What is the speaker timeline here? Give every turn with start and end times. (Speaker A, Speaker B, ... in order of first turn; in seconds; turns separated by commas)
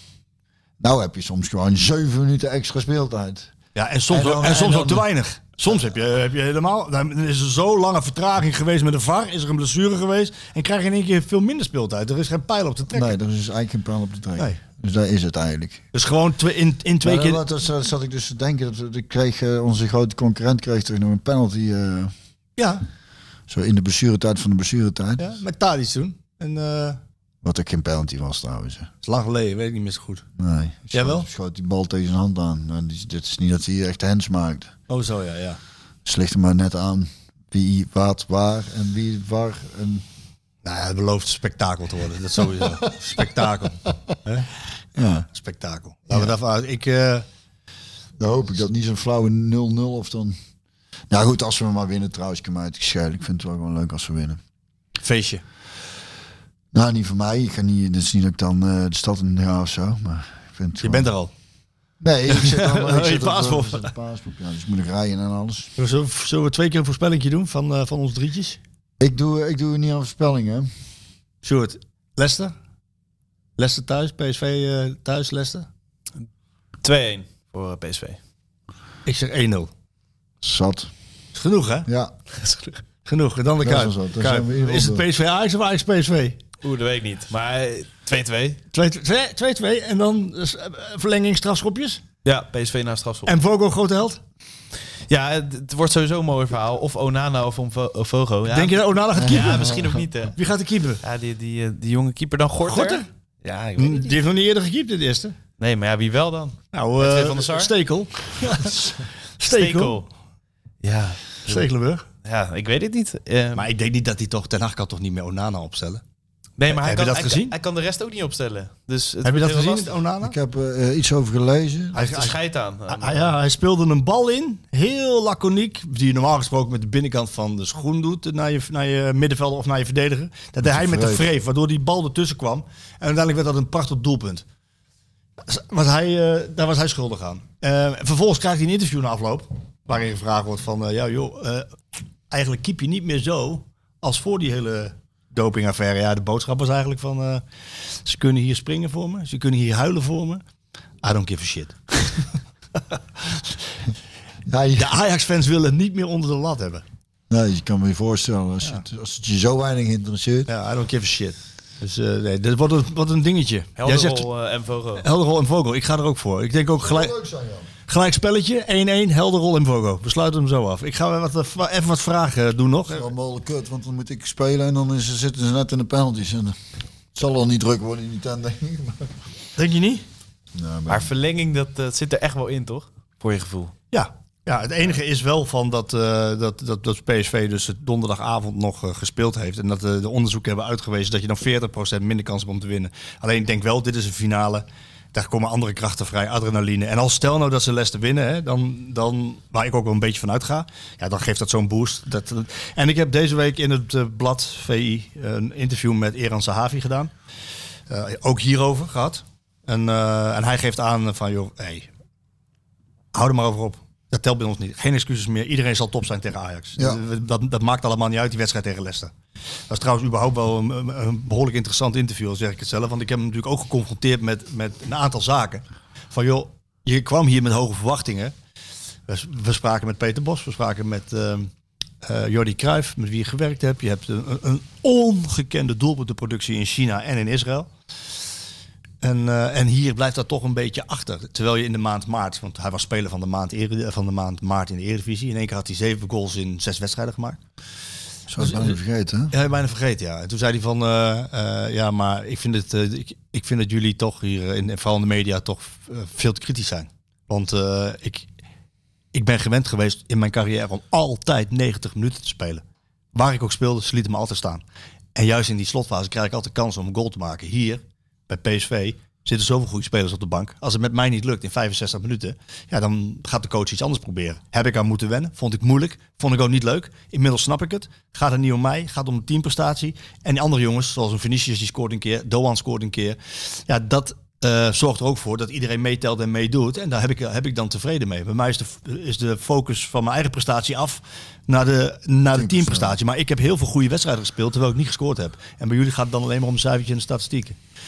Speaker A: 0.8-3.5, Speaker B: 3.8-13.2, Speaker A: 4.1-5.1, Speaker A: 12.9-15.8, Speaker B: 15.9-17.4, Speaker A: 17.0-22.1, Speaker B: 22.6-22.8, Speaker A: 23.5-25.3, Speaker B: 25.2-27.0, Speaker A: 27.4-28.9, Speaker B: 29.0-30.3, Speaker A: 30.4-34.7, Speaker B: 30.9-31.3, Speaker B: 34.9-35.6, Speaker A: 36.0-40.0, Speaker B: 40.6-44.5, Speaker A: 42.6-42.9, Speaker A: 45.0-45.3, Speaker B: 45.3-47.2, Speaker A: 48.2-50.4, Speaker A: 51.1-54.4, Speaker B: 55.0-55.4, Speaker A: 56.7-61.1, Speaker B: 60.8-61.3, Speaker A: 62.0-65.7, Speaker B: 62.3-63.9, Speaker B: 65.8-68.6, Speaker A: 69.0-70.7, Speaker B: 71.4-72.5, Speaker B: 73.6-75.7, Speaker C: 76.8-78.2, Speaker B: 79.1-79.7, Speaker A: 80.4-80.9, Speaker B: 81.3-81.9, Speaker A: 81.9-82.1, Speaker C: 82.4-82.8, Speaker B: 83.0-86.4, Speaker A: 83.6-85.0, Speaker C: 86.6-88.6, Speaker B: 88.7-92.0, Speaker C: 92.2-93.3, Speaker B: 93.3-94.2, Speaker C: 95.1-100.4, Speaker B: 98.5-101.0, Speaker A: 99.2-99.9, Speaker C: 101.0-104.1, Speaker B: 102.6-103.1, Speaker B: 103.8-105.4, Speaker C: 105.6-107.7, Speaker B: 106.7-110.0, Speaker C: 109.5-110.1, Speaker C: 110.8-111.7, Speaker B: 111.5-112.0, Speaker C: 112.2-113.7, Speaker B: 113.5-116.0, Speaker C: 116.6-119.9, Speaker B: 116.7-117.5, Speaker B: 119.2-120.4, Speaker A: 120.2-122.0, Speaker B: 121.9-122.4, Speaker C: 122.0-123.3, Speaker B: 122.9-134.4, Speaker A: 130.6-131.2, Speaker B: 135.4-141.8, Speaker B: 142.3-150.4, Speaker B: 151.0-152.4, Speaker B: 152.9-153.6, Speaker A: 154.5-154.9, Speaker B: 154.8-156.8, Speaker A: 157.3-160.5, Speaker B: 160.5-164.3, Speaker C: 163.8-165.1, Speaker B: 165.0-167.1, Speaker A: 166.8-167.7, Speaker B: 167.9-173.1, Speaker A: 172.9-176.6, Speaker A: 177.1-179.1, Speaker B: 179.6-180.1, Speaker A: 180.6-181.1, Speaker C: 180.9-183.7, Speaker B: 183.9-207.1, Speaker B: 207.9-211.9, Speaker B: 213.1-219.1, Speaker A: 216.8-217.0, Speaker B: 219.7-228.3, Speaker B: 229.1-231.5, Speaker B: 232.0-237.7, Speaker B: 239.0-247.4, Speaker A: 248.3-249.3, Speaker B: 248.4-248.8, Speaker B: 249.3-258.3, Speaker B: 259.1-262.6, Speaker B: 263.1-264.6, Speaker B: 265.1-297.6, Speaker A: 292.4-293.0